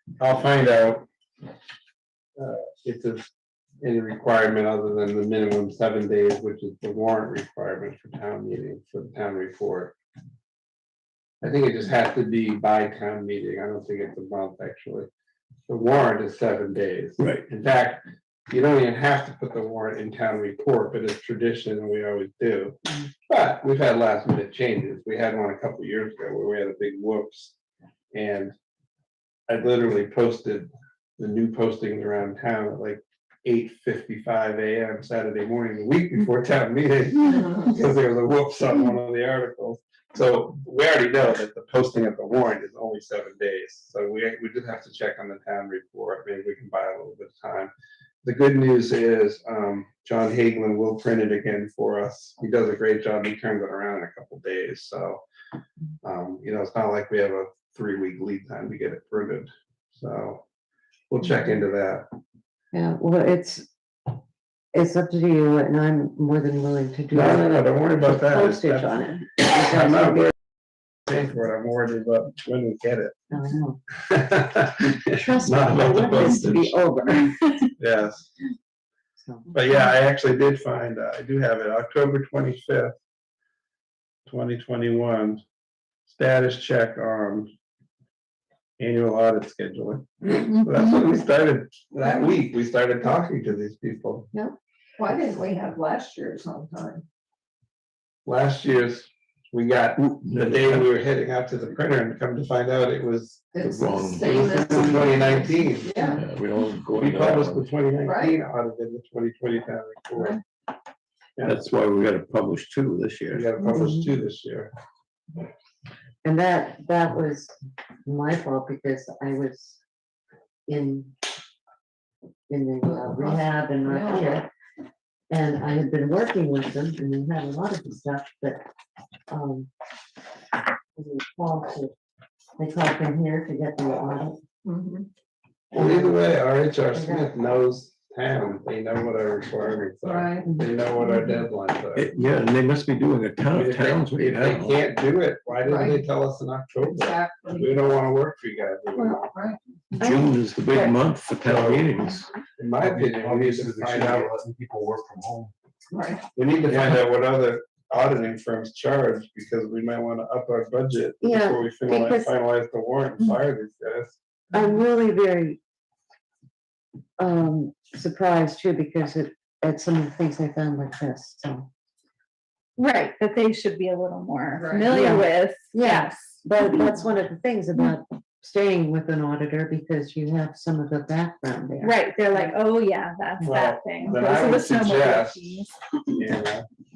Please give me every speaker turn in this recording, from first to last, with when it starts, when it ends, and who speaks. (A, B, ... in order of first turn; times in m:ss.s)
0:00.2-0:01.0 A
0:02.4-0:03.3 A
0:03.8-0:09.9 A
0:11.4-0:15.1 A
0:15.7-0:22.8 A
0:17.2-0:17.4 B
0:23.3-0:27.5 A
0:28.1-0:28.5 A
0:29.5-0:47.7 A
0:37.2-0:37.7 C
0:48.2-0:55.2 A
0:56.0-1:00.4 A
1:01.1-1:02.0 A
1:02.7-1:03.7 D
1:04.7-1:10.3 D
1:07.1-1:10.3 A
1:11.1-1:13.2 A
1:13.3-1:13.8 D
1:14.0-1:16.8 A
1:15.1-1:17.5 D
1:17.8-1:18.3 A
1:19.2-1:19.5 D
1:19.5-1:22.9 A
1:24.2-1:25.4 A
1:26.1-1:27.5 A
1:28.8-1:34.3 A
1:30.5-1:30.9 E
1:35.0-1:37.0 C
1:38.2-1:43.4 A
1:40.0-1:40.9 B
1:43.5-1:46.2 C
1:43.6-1:45.2 B
1:44.2-1:45.9 A
1:46.1-1:47.7 B
1:47.0-1:50.4 A
1:48.0-1:48.4 C
1:51.4-1:53.5 B
1:53.3-1:54.7 A
1:53.7-1:54.1 D
1:56.2-1:57.5 D
1:58.0-1:59.8 D
2:00.7-2:01.1 D
2:02.5-2:04.5 D
2:02.8-2:04.4 C
2:05.3-2:08.6 D
2:09.3-2:09.7 D
2:11.0-2:11.9 D
2:12.6-2:14.4 D
2:14.6-2:15.1 C
2:15.7-2:16.3 D
2:15.7-2:22.1 A
2:16.9-2:17.4 D
2:20.0-2:20.5 C
2:21.9-2:24.8 B
2:23.5-2:29.3 A
2:25.6-2:26.0 C
2:26.8-2:27.9 C
2:28.9-2:30.0 C
2:30.0-2:32.3 B
2:30.0-2:30.9 D
2:31.4-2:31.9 A
2:32.6-2:34.3 A
2:32.8-2:35.5 F
2:35.9-2:36.2 C
2:36.3-2:44.2 A
2:41.2-2:42.3 D
2:44.5-2:45.6 D
2:47.2-2:51.7 D
2:52.8-2:56.8 E
2:54.5-2:55.2 C
2:54.8-3:02.5 D
3:01.8-3:05.8 E
3:03.4-3:05.6 A
3:06.1-3:06.6 A